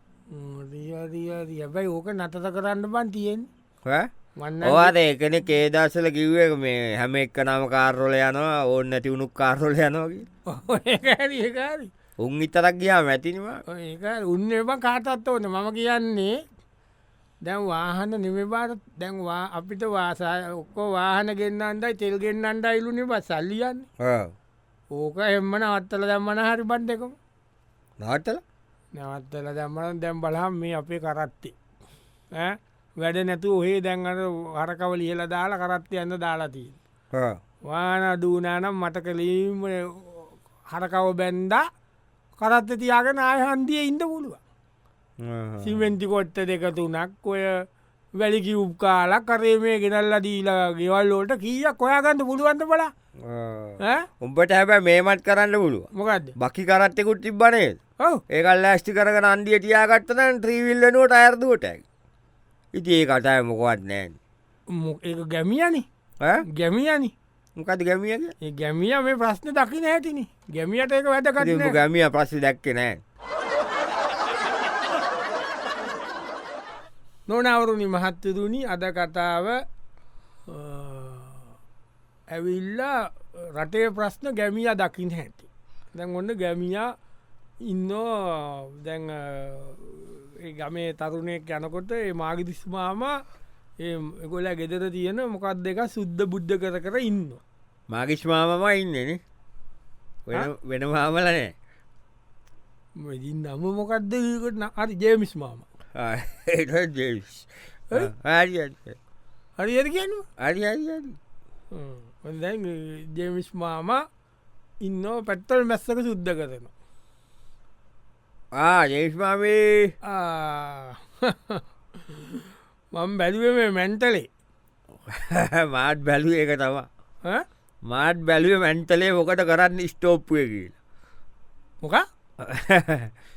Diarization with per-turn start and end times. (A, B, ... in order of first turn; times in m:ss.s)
0:00.3-0:03.5 A
0:03.8-0:04.1 B
0:04.4-0:04.9 A
0:04.6-0:10.3 B
0:10.5-0:11.9 A
0:12.2-0:13.6 B
0:13.7-0:16.3 A
0:17.4-0:23.9 A
0:24.0-0:24.3 B
0:24.9-0:27.1 A
0:28.0-0:28.4 B
0:28.9-0:31.5 A
0:32.3-0:36.8 A
0:37.1-0:37.4 B
0:37.6-0:41.6 A
0:42.4-0:44.4 A
0:45.2-0:45.9 B
0:45.6-0:47.6 A
0:48.2-0:52.9 A
0:53.2-1:01.8 B
0:53.8-0:54.1 A
0:55.9-0:56.3 A
1:02.7-1:04.2 B
1:04.7-1:05.8 A
1:06.5-1:07.1 A
1:07.6-1:08.3 B
1:08.4-1:11.8 A
1:11.4-1:13.0 B
1:17.3-1:19.6 A
1:20.5-1:21.5 A
1:22.3-1:26.9 A
1:27.6-1:33.2 A
1:33.8-1:37.4 A
1:37.9-1:39.2 B
1:40.3-1:41.5 B
1:43.0-1:45.6 A
1:45.9-1:49.0 B
1:49.6-1:50.2 A
1:50.4-1:51.2 B
1:51.7-1:54.0 A
1:54.8-1:56.7 A
1:58.5-1:59.9 B
2:00.0-2:04.3 A
2:05.0-2:06.9 B
2:07.8-2:10.7 B
2:12.4-2:13.1 B